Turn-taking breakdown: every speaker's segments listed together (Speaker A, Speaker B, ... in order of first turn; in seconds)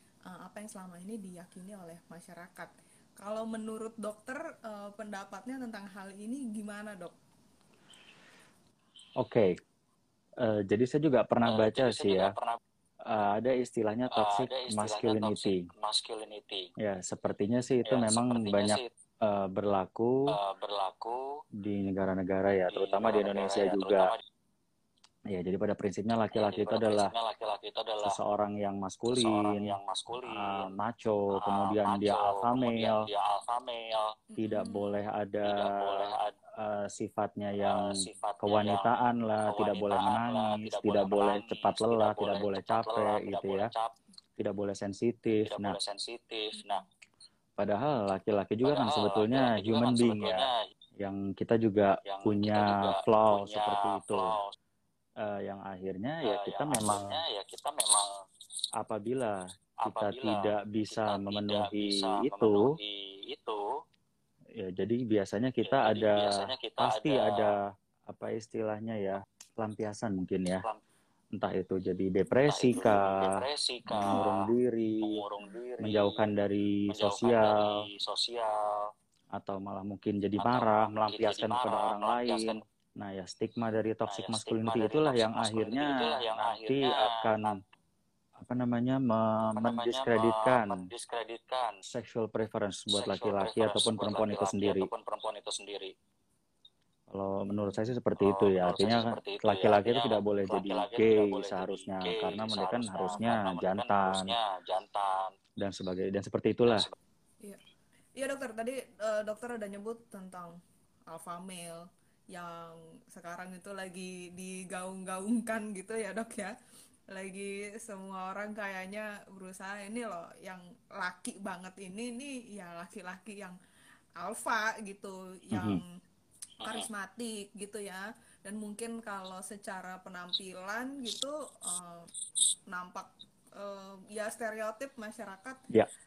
Speaker A: 0.3-7.2, 34.3-35.0, 108.2-110.5, 111.1-116.5, 117.1-123.6, 124.2-125.9, 126.6-132.1, 132.7-135.6
Speaker B: 9.2-9.5, 10.4-12.3, 13.1-15.6, 16.8-20.3, 21.6-24.1, 25.3-27.1, 28.0-33.0, 34.4-43.7, 44.4-45.8, 47.6-54.4, 55.2-57.2, 58.8-62.7, 64.6-70.7, 71.4-75.2, 75.8-77.8, 79.3-87.6, 88.4-90.8, 91.9-94.9, 97.1-104.3, 105.6-106.9, 125.5-125.8
Speaker C: 11.5-12.6, 14.1-16.7, 17.9-18.9, 20.3-21.3, 22.7-24.2, 26.3-28.2, 29.1-30.8, 31.3-34.2, 35.5-36.4, 37.6-43.9, 45.4-46.9, 48.6-50.6, 52.0-54.5, 56.2-58.1, 59.8-63.6, 65.6-67.5, 72.5-74.4, 75.0-76.2, 76.9-78.9, 80.4-82.6, 84.1-87.5, 89.6-91.8, 92.9-95.9, 98.2-105.4, 106.7-106.9, 126.6-126.9